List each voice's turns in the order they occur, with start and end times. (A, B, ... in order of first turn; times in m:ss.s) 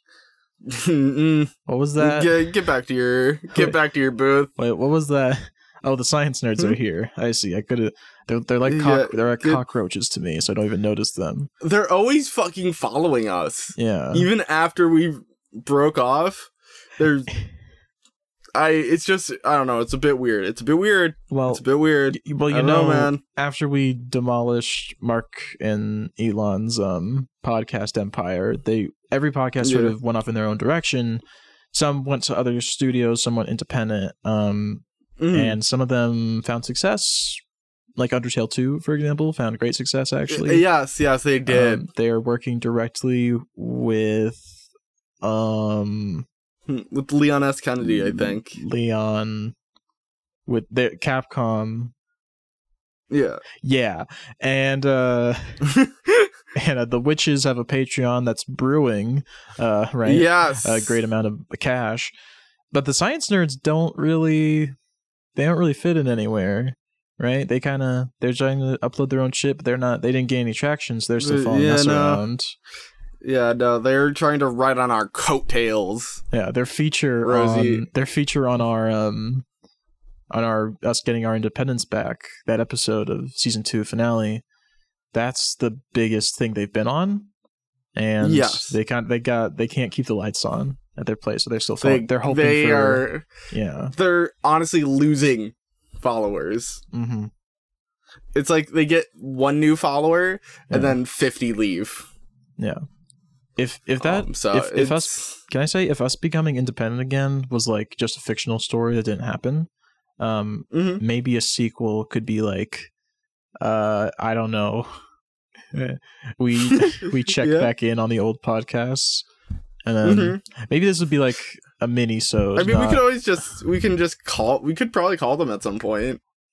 0:00.6-0:04.5 A
0:01.7-0:02.4 B
0:04.6-0:11.5 B
0:08.6-0:09.6 A
0:11.6-0:17.3 A
0:13.8-0:14.3 B
0:18.5-0:23.2 A
0:21.3-0:31.2 B
0:29.6-0:29.9 A
0:31.7-0:37.4 B
0:35.2-0:35.6 A
0:38.0-0:40.6 B
0:40.3-0:41.9 A
0:41.5-0:44.6 B
0:45.2-0:46.2 B
0:46.7-0:48.6 A
0:47.8-0:49.5 B
0:50.5-0:51.9 B
0:53.1-0:53.4 A
0:53.6-0:55.6 B
0:55.7-0:56.3 A
0:56.5-1:02.1 B
1:00.0-1:01.0 A
1:02.7-1:04.7 B
1:05.3-1:12.5 B
1:11.2-1:12.2 A
1:13.2-1:16.2 A
1:16.3-1:19.4 B
1:17.2-1:17.8 A
1:20.3-1:24.4 B
1:25.1-1:27.3 B
1:27.9-1:33.9 B
1:28.2-1:28.8 A
1:31.8-1:33.3 A
1:33.9-1:36.8 A
1:36.9-1:37.3 B
1:38.3-1:42.1 A
1:43.6-1:52.9 B
1:44.0-1:45.4 A
1:50.7-1:51.0 A
1:53.6-1:54.9 B
1:55.7-1:59.3 B
1:56.7-1:57.7 A
1:59.8-2:03.0 B
2:00.0-2:00.4 A
2:02.6-2:06.2 A